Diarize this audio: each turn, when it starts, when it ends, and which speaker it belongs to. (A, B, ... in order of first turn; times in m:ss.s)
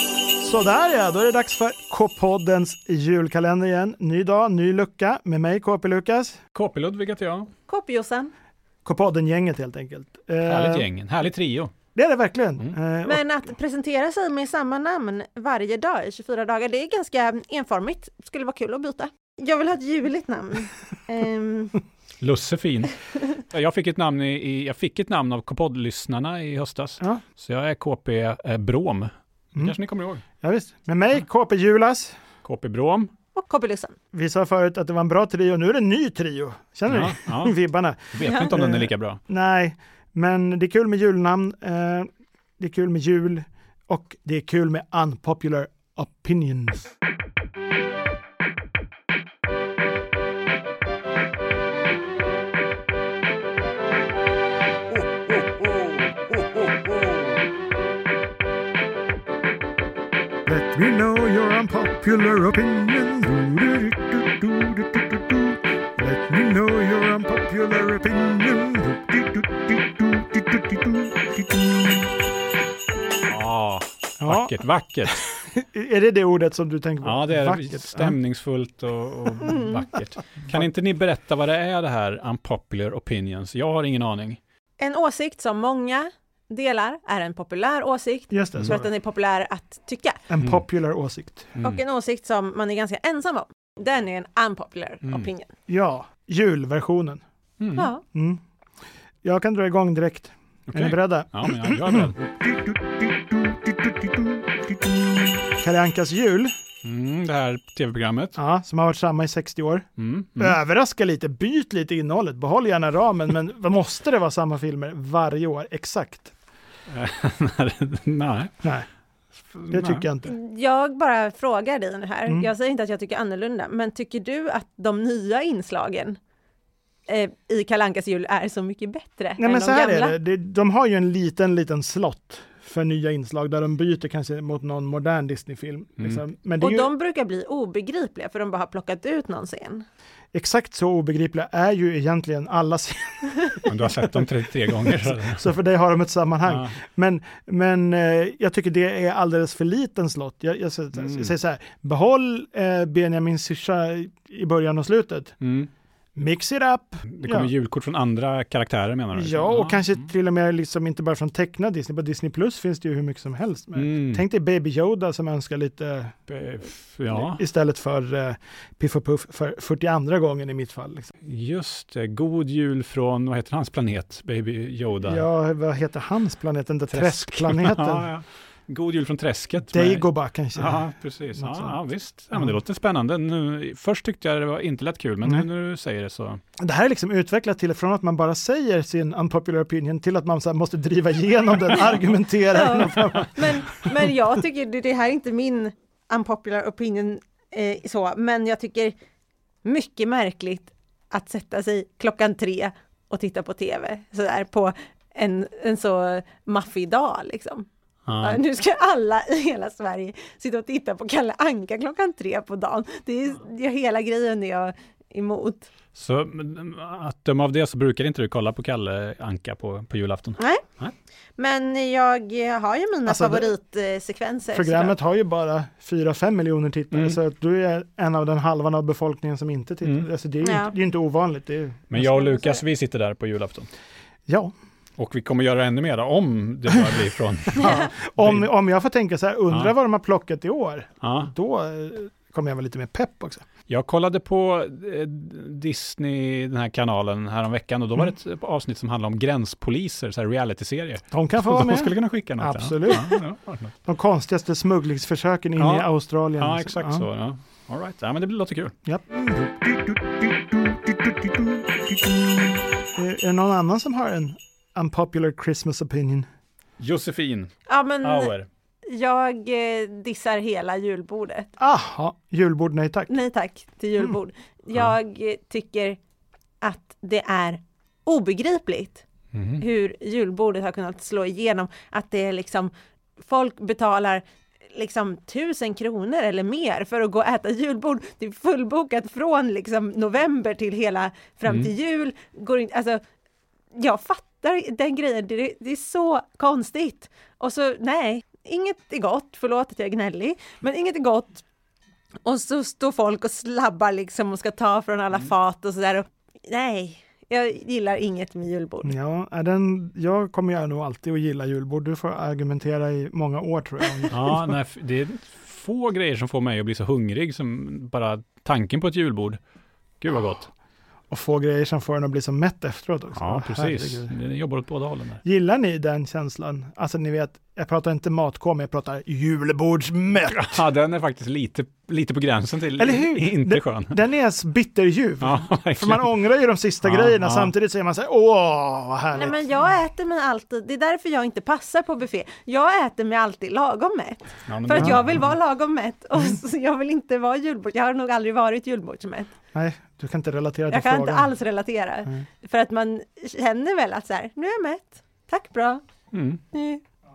0:00.4-0:06.4 A
0:06.5-0:07.5 B
0:07.7-0:08.3 C
0:08.8-0:10.9 A
0:10.4-0:11.7 B
0:11.9-0:13.3 A
0:13.0-0:21.8 C
0:22.2-0:30.2 B
0:30.4-0:32.2 A
0:32.4-0:33.1 B
0:33.3-0:34.0 C
0:34.1-0:42.1 A
0:36.9-0:37.5 B
0:38.1-0:39.2 B
0:38.2-0:38.5 C
0:42.6-0:46.9 A
0:55.6-0:57.1 A
1:00.4-1:09.2 A
1:10.0-1:12.0 A
1:13.3-1:15.2 B
1:14.2-1:14.6 A
1:15.2-1:18.2 A
1:17.0-1:24.4 B
1:24.8-1:30.2 C
1:28.3-1:28.9 A
1:30.3-1:31.6 A
1:31.6-1:31.8 B
1:31.6-1:35.5 C
1:35.7-1:37.2 A
1:37.6-1:37.9 B
1:37.8-1:38.0 C
1:38.1-1:38.4 A
1:39.2-1:42.1 A
1:40.7-1:42.2 B
1:45.6-1:46.5 A
1:46.8-1:48.4 B
1:48.4-1:49.8 A
1:50.0-1:50.6 B
1:50.4-1:56.3 A
1:56.9-1:58.5 B
1:59.5-2:00.1 B
1:59.7-2:00.3 A
2:00.2-2:06.2 C
2:07.1-2:10.1 C
2:09.4-2:16.9 A
2:16.6-2:19.8 C
2:20.3-2:35.3 A
2:23.6-2:25.4 B
2:26.4-2:26.7 B
2:31.0-2:31.3 B
2:35.4-2:35.7 B
2:36.2-2:37.5 A
2:37.0-2:40.0 B
2:39.1-2:46.1 A
2:43.7-2:44.2 B
2:46.3-2:47.4 B
2:47.1-2:51.1 A
2:51.2-2:55.2 B
2:55.0-2:58.1 A
2:56.9-3:06.4 B
2:59.7-3:01.8 A
3:06.6-3:13.9 A
3:12.5-3:18.9 C
3:19.6-3:27.7 C
3:28.1-3:28.4 B
3:28.2-3:35.7 C
3:35.9-3:40.9 B
3:40.4-3:40.6 C
3:41.4-3:44.9 C
3:43.0-3:43.5 A
3:44.5-3:52.3 A
3:46.9-3:47.2 B
3:50.4-3:50.7 C
3:51.9-3:53.7 B
3:54.3-3:54.5 A
3:55.0-3:58.5 B
3:57.5-4:03.4 A
3:57.6-3:57.9 C
4:01.0-4:01.3 B
4:03.7-4:13.7 B
4:11.1-4:13.2 A
4:13.8-4:17.0 A
4:15.6-4:18.7 B
4:18.8-4:19.5 A
4:23.0-4:26.3 A
4:26.8-4:27.5 B
4:27.7-4:28.3 C
4:28.0-4:28.5 B
4:28.9-4:31.5 C
4:31.6-4:33.1 A
4:33.1-4:36.0 C
4:36.6-4:39.0 C
4:39.3-4:39.6 B
4:39.6-4:53.0 C
4:51.4-4:51.7 B
4:53.7-5:01.4 C
5:02.2-5:08.9 C
5:08.8-5:14.4 A
5:14.1-5:19.4 B
5:20.0-5:20.5 B
5:21.1-5:24.1 A
5:23.2-5:25.2 B
5:25.2-5:30.6 A
5:30.3-5:34.0 B
5:32.8-5:39.4 A
5:35.2-5:36.1 B
5:36.8-5:37.5 B
5:39.1-5:49.3 C
5:44.5-5:45.3 B
5:44.7-5:45.0 A
5:49.5-5:51.3 A
5:50.7-5:55.8 C
5:56.1-5:56.4 B
5:56.5-5:56.8 C